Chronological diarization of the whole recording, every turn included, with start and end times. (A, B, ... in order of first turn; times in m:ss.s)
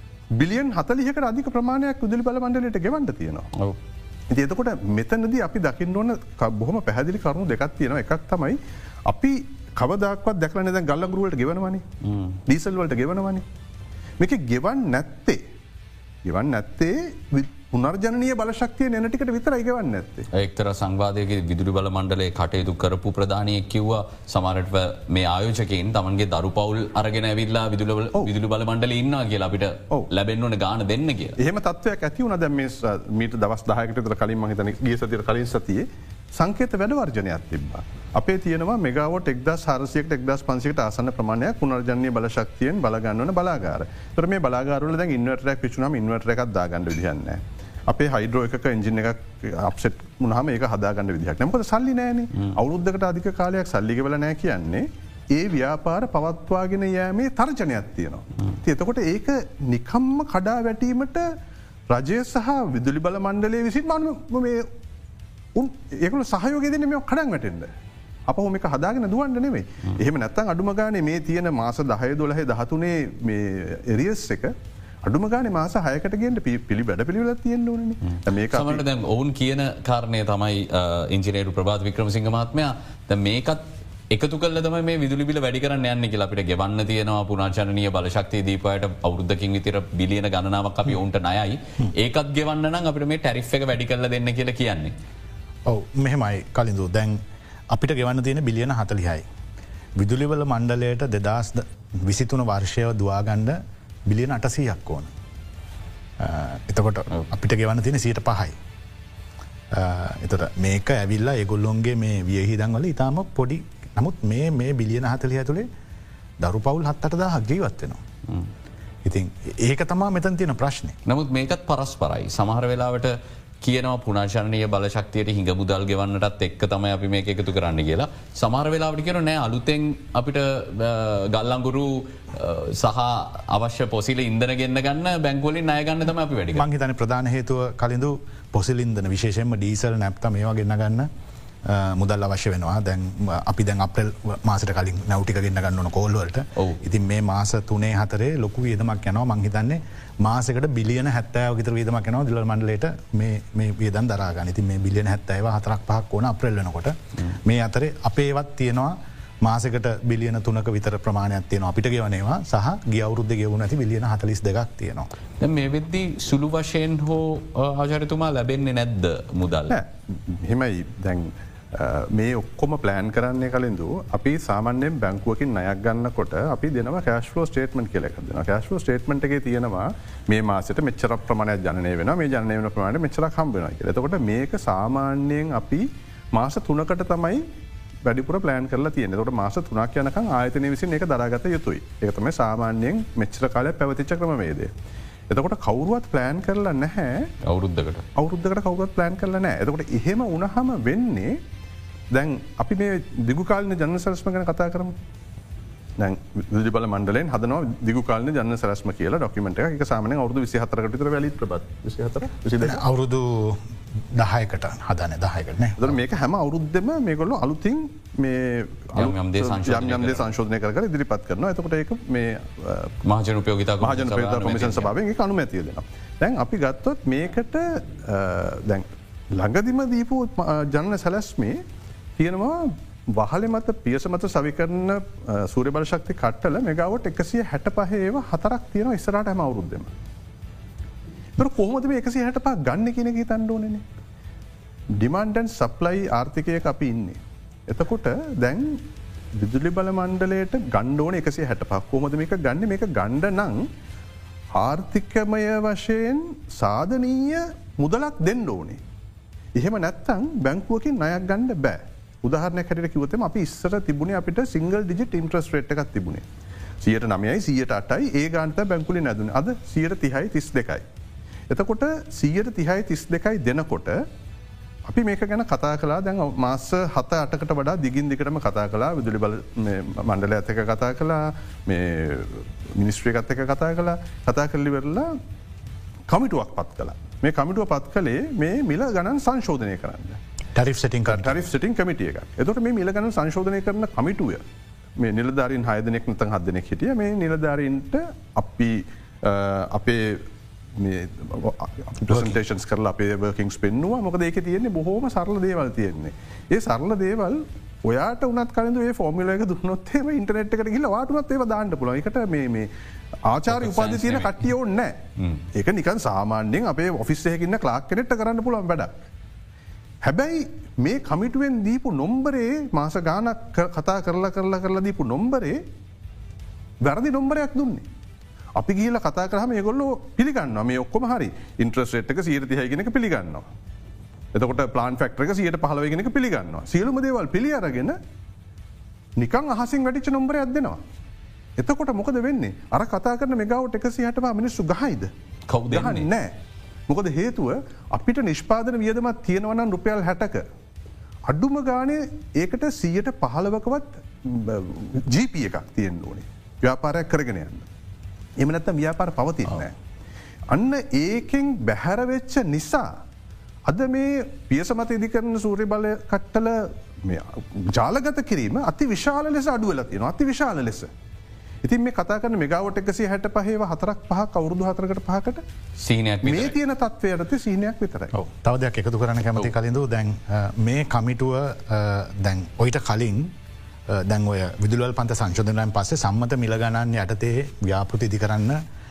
0:00.4-0:03.5 A
0:04.3-0:11.8 A
0:12.0-0:12.4 B
0:12.5-0:13.4 A
0:14.2-0:15.4 A
0:16.2-0:20.3 A
0:20.3-0:31.4 B
0:31.4-1:01.3 A
1:01.9-1:04.7 A
1:05.6-1:07.7 A
1:08.3-1:18.8 A
1:18.1-1:34.9 B
1:35.7-1:37.2 C
1:37.7-1:39.2 C
1:40.0-1:45.1 C
1:46.2-1:48.6 C
1:49.7-1:55.7 C
1:56.4-1:58.0 C
1:59.0-2:01.0 C
2:01.1-2:16.7 B
2:16.6-2:21.1 C
2:21.7-2:45.1 C
2:45.4-2:49.8 B
2:49.7-3:07.4 A
3:08.0-3:14.7 A
3:15.3-3:17.3 A
3:17.4-3:18.1 B
3:18.2-3:21.4 A
3:22.1-3:25.0 A
3:26.0-3:32.8 A
3:32.6-3:35.9 C
3:35.8-3:42.9 A
3:39.0-3:40.3 B
3:43.0-3:44.9 B
3:43.8-3:51.6 A
3:52.2-3:59.9 A
4:01.4-4:03.8 A
4:05.0-4:08.8 A
4:09.4-4:13.7 A
4:14.6-4:18.8 A
4:19.6-4:26.2 A
4:26.8-4:30.8 A
4:31.5-4:34.0 A
4:34.9-4:45.1 A
4:46.1-4:50.2 A
4:50.6-4:51.4 C
4:51.1-4:54.4 A
4:55.0-5:00.2 A
5:00.8-5:12.7 A
5:13.3-5:15.0 A
5:13.5-5:14.5 B
5:15.2-5:15.4 B
5:15.5-5:19.0 A
5:20.0-5:25.6 A
5:26.8-5:27.9 A
5:28.6-5:33.5 A
5:34.3-5:38.0 A
5:39.2-5:40.8 A
5:41.6-5:45.1 A
5:45.5-5:46.1 B
5:45.7-5:46.3 A
5:46.9-5:50.4 A
5:51.3-5:57.7 A
5:58.4-5:59.7 A
6:00.5-6:02.9 A
6:03.7-6:10.9 A
6:11.6-6:15.4 A
6:15.8-6:16.6 B
6:16.2-6:18.1 A
6:18.1-6:23.3 C
6:23.9-6:28.6 C